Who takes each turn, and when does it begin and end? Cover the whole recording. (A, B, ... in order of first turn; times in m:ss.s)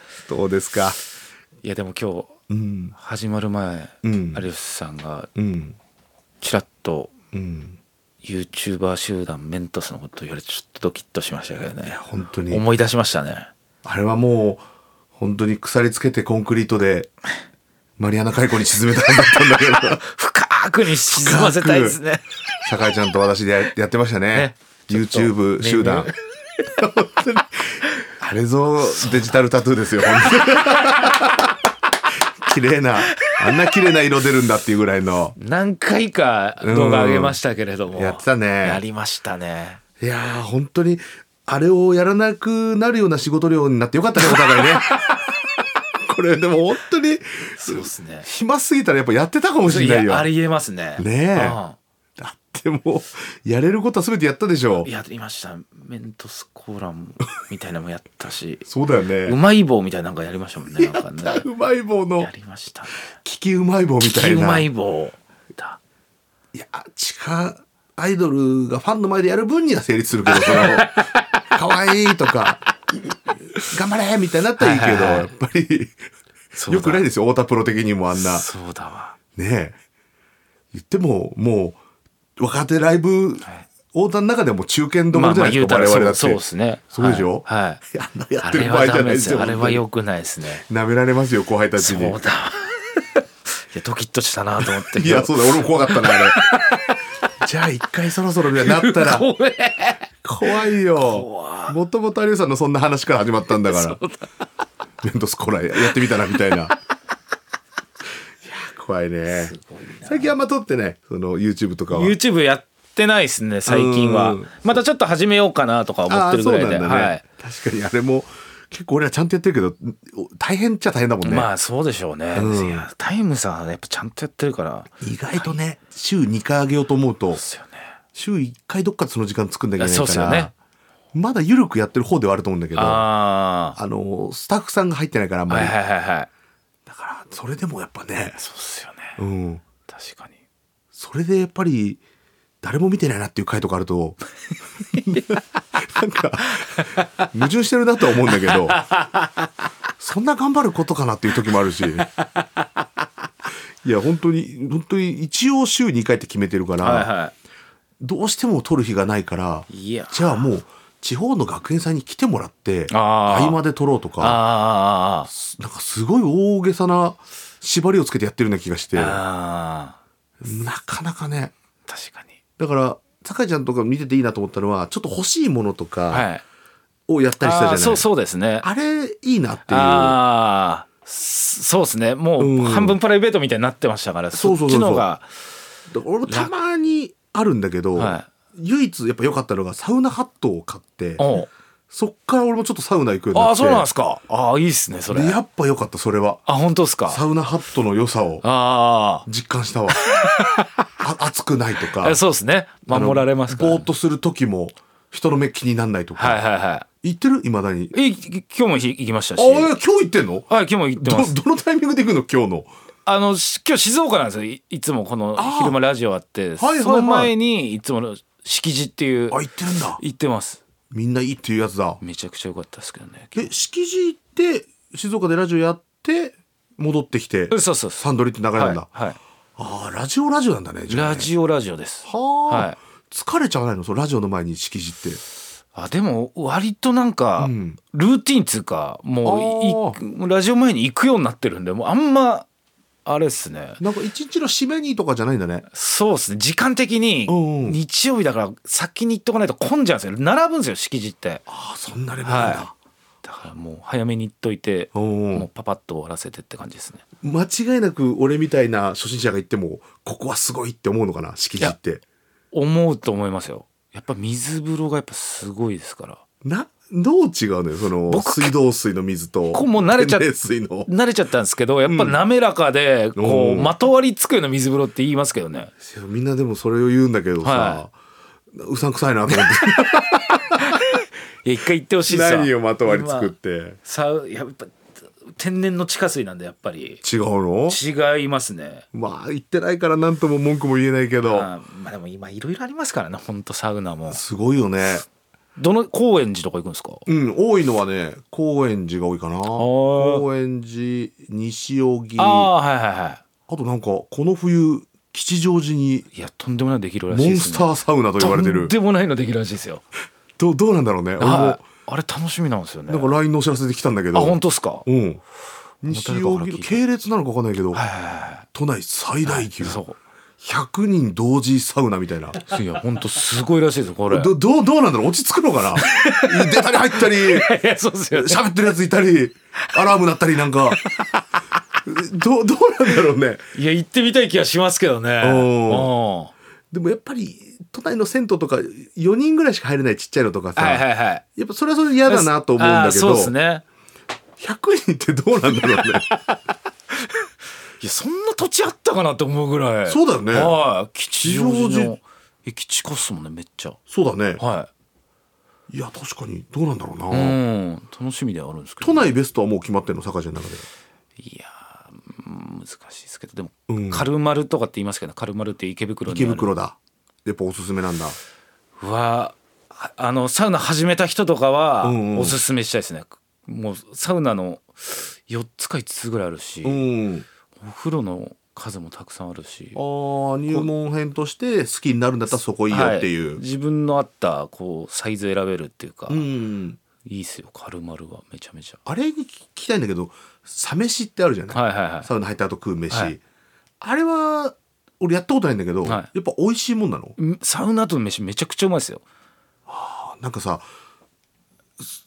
0:00.3-0:01.0 A
0:01.6-0:02.3 B
0:02.5-0:02.9 A
0:03.0-0:05.3 B
0:04.0-0:04.4 A
0:05.4-0:05.8 A
0:06.4-0:07.1 B
0:07.3-0:07.8 A
0:08.2-0:13.5 B
0:12.0-0:12.6 A
0:13.8-0:14.6 A
0:15.2-0:17.1 A
0:18.0-0:20.1 A
0:20.0-0:22.4 B
0:20.9-0:22.0 A
0:22.6-0:26.1 A
0:24.3-0:26.2 B
0:26.6-0:31.5 A
0:29.0-0:29.4 B
0:30.2-0:31.1 B
0:32.4-0:35.4 A
0:35.4-0:39.8 B
0:36.6-0:37.4 A
0:38.0-0:38.8 A
0:40.0-0:44.9 A
0:44.2-0:45.2 B
0:46.0-0:50.3 A
0:47.6-0:48.3 B
0:49.7-0:51.8 B
0:51.0-0:51.6 A
0:52.2-0:54.9 A
0:54.8-0:58.7 B
0:58.6-0:59.4 A
0:59.2-1:01.4 B
1:00.7-1:02.3 A
1:02.2-1:03.1 B
1:02.9-1:04.7 A
1:04.0-1:05.8 B
1:06.5-1:12.7 A
1:10.3-1:11.2 B
1:13.6-1:16.0 A
1:14.6-1:15.3 B
1:16.5-1:17.0 B
1:16.7-1:18.4 A
1:18.1-1:19.2 B
1:19.4-1:19.8 A
1:20.7-1:21.8 A
1:22.4-1:29.8 A
1:25.1-1:27.8 B
1:28.4-1:30.6 B
1:30.6-1:32.2 A
1:31.8-1:33.0 B
1:33.7-1:37.0 B
1:34.6-1:36.4 A
1:37.4-1:39.3 A
1:38.6-1:41.8 B
1:40.2-1:44.0 A
1:43.5-1:44.3 B
1:45.0-1:46.8 A
1:45.8-1:46.8 B
1:48.4-1:49.6 A
1:49.3-1:50.3 B
1:50.1-1:52.2 A
1:51.9-1:57.2 B
1:53.7-1:54.7 A
1:56.1-2:01.5 A
2:01.2-2:05.5 B
2:02.3-2:02.8 A
2:05.0-2:07.4 A
2:07.3-2:07.9 B
2:08.1-2:10.5 A
2:09.8-2:10.5 B
2:11.1-2:13.1 A
2:12.7-2:13.8 B
2:13.8-2:15.8 A
2:15.5-2:16.3 B
2:16.8-2:18.4 A
2:18.4-2:19.2 B
2:19.2-2:19.6 A
2:19.9-2:20.3 B
2:20.9-2:22.0 A
2:22.6-2:24.2 A
2:24.9-2:28.8 A
2:26.7-2:27.1 B
2:28.5-2:29.5 B
2:30.0-2:32.1 A
2:32.0-2:32.8 B
2:33.8-2:37.1 A
2:36.8-2:37.3 B
2:38.0-2:44.4 A
2:39.7-2:40.5 B
2:42.9-2:43.6 B
2:44.2-2:45.3 B
2:45.3-2:49.2 A
2:48.9-2:50.0 B
2:50.4-2:51.5 A
2:51.9-2:52.3 B
2:52.6-2:56.2 A
2:56.1-2:56.4 B
2:57.1-2:58.1 A
2:57.4-2:58.7 B
2:58.6-3:00.2 A
2:59.7-3:05.3 B
3:02.4-3:03.0 A
3:04.3-3:05.1 A
3:05.9-3:11.3 A
3:07.9-3:08.3 B
3:11.2-3:11.5 B
3:11.9-3:13.9 A
3:13.3-3:15.4 B
3:15.1-3:16.4 A
3:16.5-3:17.2 B
3:17.1-3:18.4 A
3:18.4-3:19.3 B
3:19.2-3:20.0 A
3:19.9-3:20.8 B
3:21.0-3:22.2 A
3:22.0-3:23.9 B
3:22.9-3:26.4 A
3:26.2-3:26.8 B
3:27.0-3:27.9 A
3:27.9-3:29.7 B
3:29.4-3:32.7 A
3:30.5-3:31.4 B
3:33.1-3:40.6 B
3:35.4-3:35.8 A
3:36.6-3:37.3 A
3:39.3-3:40.0 A
3:40.9-3:42.0 A
3:42.0-3:43.5 B
3:43.3-3:48.9 A
3:47.5-3:49.2 B
3:49.6-3:51.3 A
3:50.9-3:52.8 B
3:52.0-3:55.2 A
3:55.7-4:02.5 B
3:57.4-3:57.8 A
3:59.2-4:00.0 A
4:03.1-4:03.8 B
4:03.8-4:05.7 A
4:05.7-4:11.4 B
4:07.3-4:07.8 A
4:11.5-4:12.7 A
4:12.2-4:12.7 B
4:13.2-4:17.0 B
4:14.9-4:15.4 A
4:17.2-4:22.0 A
4:22.5-4:26.2 B
4:26.4-4:30.9 A
4:28.1-4:28.5 B
4:29.5-4:30.3 B
4:30.8-4:35.7 B
4:31.8-4:32.2 A
4:33.2-4:33.7 A
4:35.8-4:37.9 A
4:37.4-4:37.8 B
4:38.5-4:40.8 A
4:40.8-4:43.3 B
4:42.1-4:43.8 A
4:43.8-4:47.0 B
4:47.0-4:47.8 A
4:47.7-4:48.9 B
4:48.9-4:51.5 A
4:51.2-4:54.2 B
4:54.1-4:55.0 A
4:55.6-4:57.0 B
4:57.1-5:02.5 A
4:59.5-5:00.2 B
5:02.2-5:03.2 B
5:03.5-5:06.1 A
5:06.1-5:09.8 B
5:07.1-5:08.7 A
5:10.4-5:11.6 A
5:11.2-5:13.1 B
5:12.9-5:15.2 A
5:14.1-5:14.8 B
5:15.8-5:17.8 A
5:15.9-5:16.8 B
5:17.7-5:18.4 B
5:18.5-5:19.8 A
5:19.2-5:20.0 B
5:20.4-5:22.4 A
5:22.4-5:24.3 B
5:24.1-5:27.5 A
5:25.8-5:28.4 B
5:28.1-5:30.8 A
5:30.7-5:31.1 B
5:31.8-5:33.4 A
5:33.5-5:36.3 B
5:35.2-5:35.9 A
5:36.7-5:43.3 A
5:40.6-5:41.2 B
5:42.1-5:43.6 B
5:44.4-5:46.1 A
5:47.8-5:53.8 B
5:49.9-5:50.6 A
5:51.2-5:52.0 A
5:53.9-5:54.4 A
5:54.4-5:54.7 B
5:55.7-5:57.4 A
5:57.1-5:59.1 B
5:58.8-6:00.7 A
6:01.2-6:06.5 B
6:03.7-6:04.0 A
6:06.1-6:08.2 A
6:08.8-6:16.8 B
6:11.8-6:12.4 A
6:16.6-6:17.2 A
6:17.6-6:19.8 B
6:19.8-6:23.4 A
6:22.7-6:26.3 B
6:26.1-6:26.8 A
6:27.0-6:28.8 B
6:28.9-6:33.2 A
6:31.5-6:32.1 B
6:32.9-6:33.2 B
6:33.8-6:37.2 A
6:35.8-6:36.1 B
6:37.2-6:39.0 B
6:39.7-6:40.7 A